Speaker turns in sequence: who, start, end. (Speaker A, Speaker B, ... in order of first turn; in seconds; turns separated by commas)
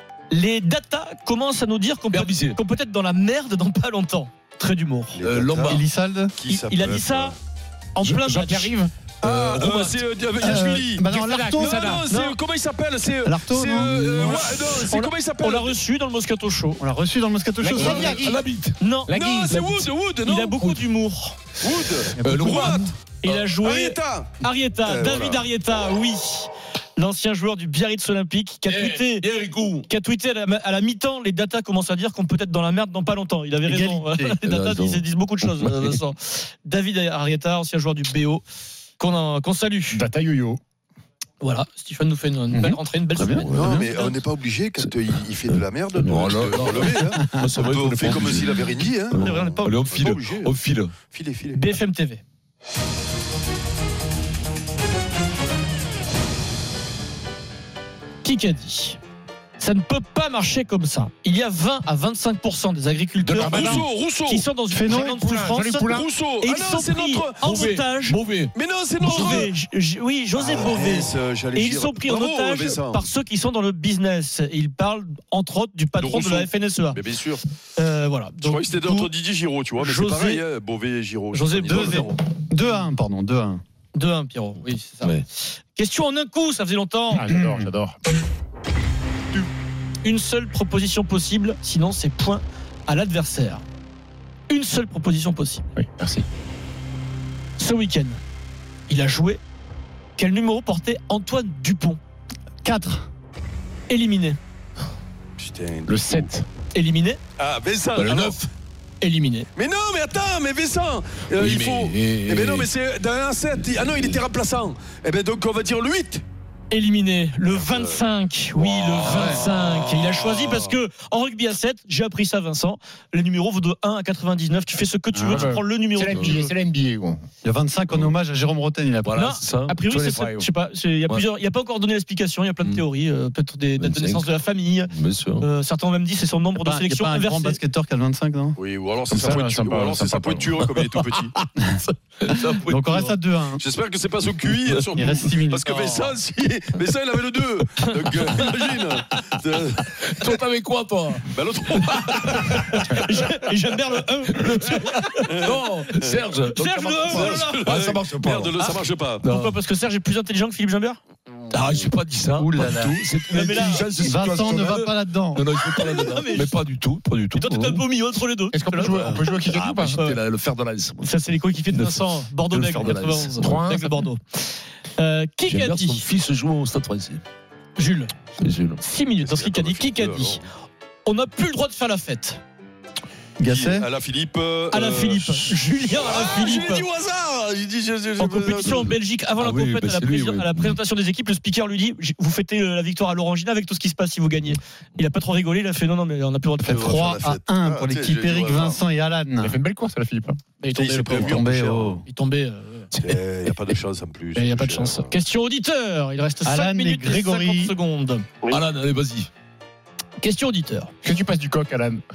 Speaker A: 0.3-5.2, Speaker B: 2.1-2.6, Speaker C: 5.1-5.8, Speaker B: 5.2-5.8, Speaker D: 5.6-6.3, Speaker C: 6.4-7.3, Speaker A: 6.5-7.4, Speaker A: 7.9-8.7, Speaker E: 8.0-8.9, Speaker C: 9.2-15.8, Speaker B: 9.3-9.8, Speaker A: 9.6-9.8, Speaker D: 10.4-11.8, Speaker E: 11.0-12.1, Speaker A: 12.1-12.4, Speaker D: 13.2-14.6, Speaker A: 14.7-16.8, Speaker D: 16.8-18.4, Speaker E: 17.6-18.4, Speaker B: 17.7-18.8, Speaker C: 17.8-18.1, Speaker A: 18.8-19.2, Speaker E: 19.1-19.9, Speaker C: 19.1-20.8, Speaker A: 20.2-21.4, Speaker C: 21.6-25.4, Speaker D: 22.2-22.9, Speaker B: 22.2-23.4, Speaker A: 23.2-29.3, Speaker B: 28.7-29.9, Speaker A: 29.9-38.4, Speaker D: 33.6-34.4, Speaker B: 34.5-36.0, Speaker A: 39.0-40.0, Speaker E: 39.9-40.6, Speaker A: 41.4-44.1, Speaker D: 42.5-43.5, Speaker B: 43.2-43.9, Speaker C: 43.5-49.2, Speaker B: 45.5-50.9, Speaker D: 47.2-47.5, Speaker A: 49.1-49.8, Speaker C: 49.9-50.5, Speaker C: 51.1-51.8, Speaker A: 51.5-52.2, Speaker A: 58.2-59.0, Speaker A: 59.6-68.2, Speaker B: 63.2-63.8, Speaker E: 63.4-63.9, Speaker C: 63.5-64.5, Speaker D: 64.7-65.0, Speaker E: 64.8-66.1, Speaker C: 65.8-67.6, Speaker B: 67.4-69.5, Speaker C: 68.5-69.5, Speaker A: 69.0-77.0, Speaker C: 70.3-73.1, Speaker C: 76.0-77.4, Speaker A: 77.8-79.1, Speaker C: 78.4-82.2, Speaker A: 79.8-80.5, Speaker A: 81.3-82.1, Speaker D: 81.7-83.6, Speaker A: 83.9-85.2, Speaker A: 85.7-87.2, Speaker E: 87.1-88.0, Speaker D: 87.2-87.7, Speaker A: 90.0-93.6, Speaker A: 94.5-95.7, Speaker E: 95.8-96.2, Speaker A: 97.6-98.2, Speaker A: 98.9-99.4, Speaker A: 100.2-102.0, Speaker D: 102.6-103.0, Speaker A: 103.9-104.4, Speaker C: 105.4-106.3, Speaker E: 105.9-106.4, Speaker A: 106.7-107.2, Speaker C: 107.4-108.5, Speaker B: 107.9-108.5, Speaker A: 109.0-109.5, Speaker C: 109.5-116.2, Speaker B: 111.4-112.7, Speaker A: 116.7-126.5, Speaker C: 117.5-118.0, Speaker C: 118.6-120.5, Speaker B: 119.1-119.4, Speaker D: 125.1-125.5, Speaker E: 125.3-127.2, Speaker B: 126.0-126.4, Speaker D: 127.4-129.3, Speaker B: 129.0-130.4, Speaker A: 129.1-137.6, Speaker B: 133.8-134.2, Speaker B: 134.9-135.4, Speaker D: 136.6-138.6, Speaker C: 138.6-141.3, Speaker E: 139.1-140.7, Speaker B: 142.2-143.2, Speaker D: 142.6-143.6, Speaker C: 143.6-149.9, Speaker D: 144.9-145.8, Speaker B: 150.0-153.0, Speaker C: 151.3-152.6, Speaker A: 152.5-155.3, Speaker B: 154.4-159.5, Speaker C: 155.3-156.2, Speaker A: 156.5-157.7, Speaker C: 157.1-159.2, Speaker A: 159.2-161.0, Speaker B: 161.5-167.8, Speaker D: 162.4-163.0, Speaker A: 163.3-163.9, Speaker D: 163.6-165.4, Speaker A: 165.8-166.5, Speaker A: 167.3-170.2, Speaker E: 168.5-170.0, Speaker B: 168.8-173.7, Speaker A: 171.0-174.4, Speaker E: 173.4-173.9, Speaker A: 175.0-176.1, Speaker B: 175.5-177.2, Speaker A: 177.8-178.1, Speaker B: 178.4-178.8, Speaker A: 178.8-180.4, Speaker C: 179.2-180.5, Speaker A: 181.1-182.4, Speaker D: 183.4-183.9, Speaker C: 183.4-188.9, Speaker A: 184.7-186.9, Speaker A: 188.2-197.1, Speaker B: 188.6-190.8, Speaker D: 196.6-199.6, Speaker C: 196.6-198.8, Speaker E: 199.4-200.4, Speaker A: 200.6-201.5, Speaker C: 200.7-202.0, Speaker D: 201.1-202.0, Speaker A: 202.0-202.9, Speaker B: 202.9-203.2, Speaker C: 202.9-205.1, Speaker A: 204.3-208.2, Speaker D: 206.4-207.7, Speaker B: 208.5-209.3, Speaker A: 210.2-210.9, Speaker E: 211.0-212.0